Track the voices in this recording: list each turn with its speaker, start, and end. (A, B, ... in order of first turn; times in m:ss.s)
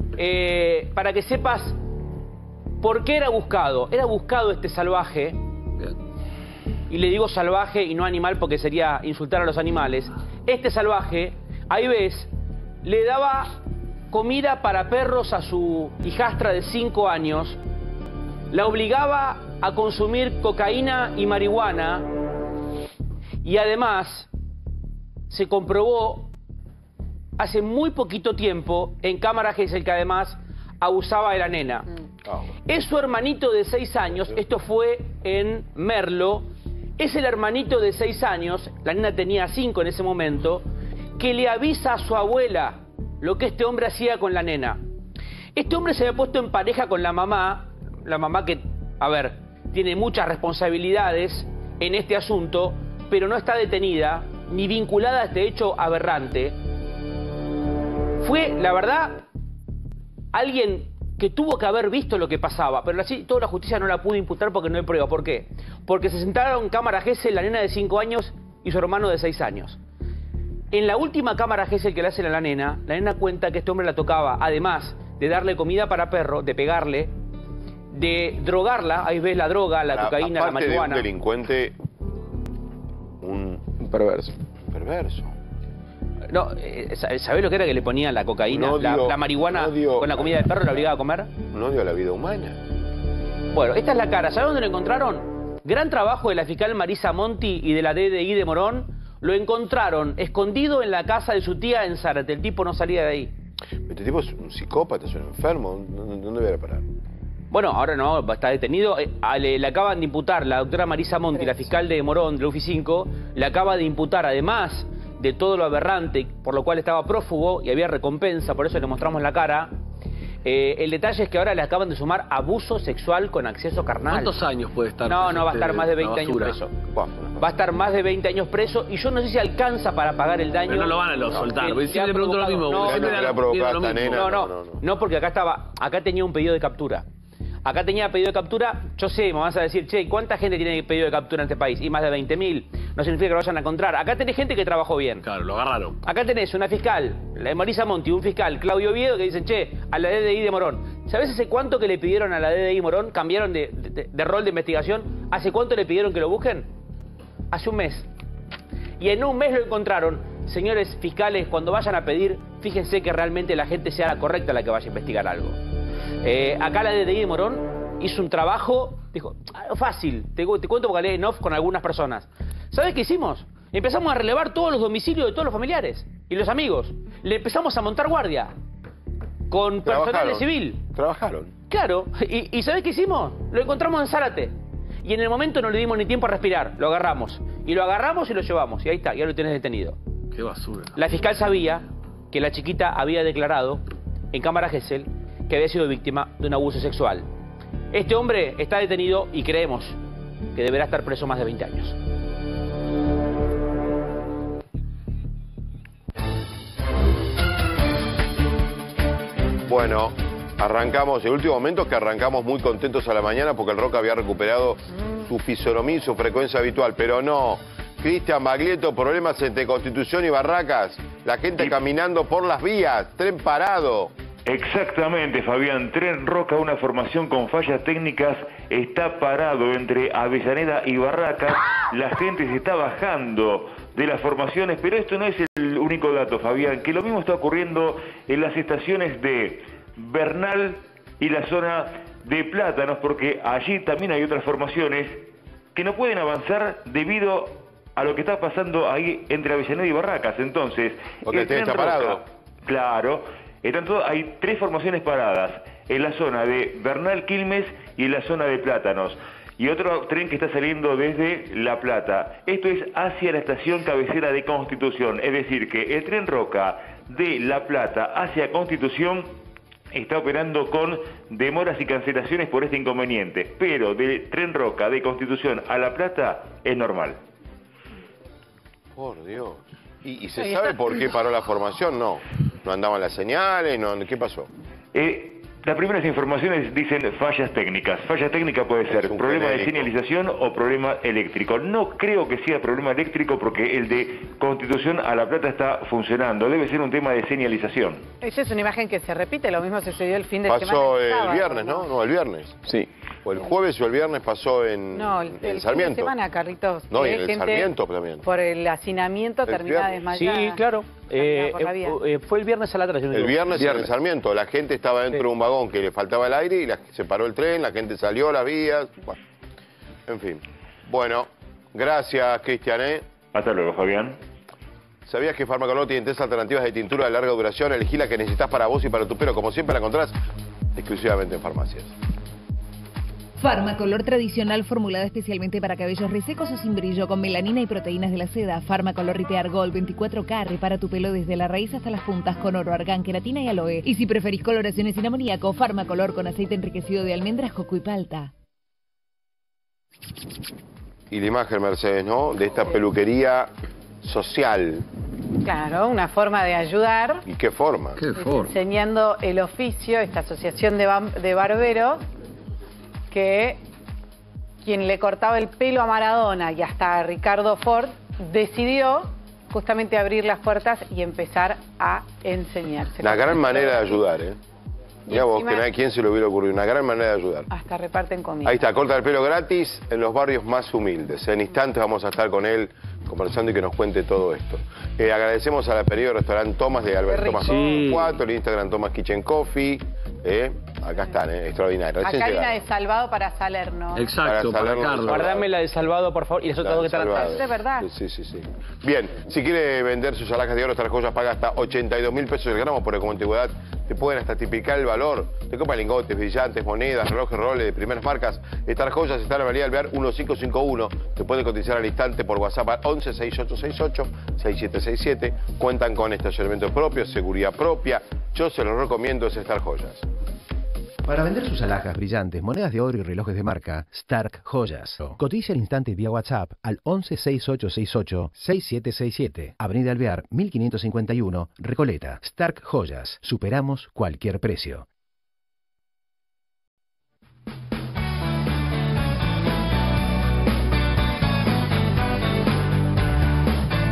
0:00.2-0:01.8 A
0:02.8-0:05.4 A
0:06.9-0:12.3 A
0:12.8-0:17.6 A
0:18.5-0:22.1 A
0:23.4-0:24.3 A
0:25.3-0:26.3 A
0:27.4-0:31.9 A
0:32.7-0:40.6 A
0:41.2-0:44.8 A
0:45.6-0:56.6 A
0:58.2-0:59.2 A
1:00.3-1:09.8 A
1:10.7-1:17.1 A
1:17.9-1:21.0 A
1:19.9-1:21.7 B
1:23.2-1:23.8 B
1:23.8-1:24.3 C
1:24.7-1:25.3 B
1:26.3-1:31.3 A
1:28.5-1:30.7 B
1:31.5-1:32.6 B
1:33.5-1:43.3 A
1:43.9-1:46.8 B
1:47.5-1:59.8 A
2:00.4-2:04.4 A
2:04.1-2:06.6 C
2:05.1-2:06.8 A
2:06.9-2:07.4 B
2:07.4-2:13.4 A
2:10.7-2:14.4 C
2:12.8-2:14.8 B
2:14.1-2:17.0 A
2:17.6-2:25.3 A
2:25.2-2:26.0 C
2:26.0-2:36.7 A
2:37.5-2:38.1 A
2:39.0-2:45.6 A
2:46.2-2:58.5 A
2:59.5-3:00.8 A
2:59.8-3:01.5 B
3:01.7-3:10.0 A
3:10.3-3:10.9 C
3:11.0-3:17.3 A
3:17.9-3:20.0 A
3:20.6-3:22.0 A
3:29.7-3:44.1 B
3:44.5-4:29.3 D
4:11.2-4:12.2 B
4:29.9-4:37.2 D
4:39.0-4:44.5 B
4:44.9-4:58.0 D
4:48.9-4:49.9 B
4:58.2-5:01.9 E
5:00.4-5:06.2 B
5:04.9-5:10.6 E
5:06.9-5:08.3 B
5:09.4-5:10.0 B
5:10.1-5:13.6 A
5:11.1-5:12.0 E
5:13.1-5:19.2 B
5:13.6-5:13.9 C
5:20.1-5:23.0 B
5:23.3-5:24.2 D
5:25.1-5:30.2 B
5:30.8-5:31.9 B
5:33.4-5:48.3 F
5:51.1-5:53.5 B
5:54.0-5:54.8 B
5:55.4-5:57.2 E
5:57.3-5:58.1 B
5:58.0-5:58.6 C
5:58.2-6:02.0 E
6:03.1-6:03.6 E
6:04.6-6:14.0 E
6:13.0-6:14.4 B
6:15.1-6:17.5 B
6:15.1-6:15.7 E
6:17.5-6:18.7 E
6:18.4-6:32.5 B
6:27.0-6:27.8 E
6:27.4-6:28.2 C
6:32.0-6:34.2 E
6:33.9-6:35.3 C
6:34.2-6:35.5 B
6:35.1-6:37.4 A
6:36.6-7:00.0 B
6:37.2-6:37.9 E
7:01.1-7:14.9 G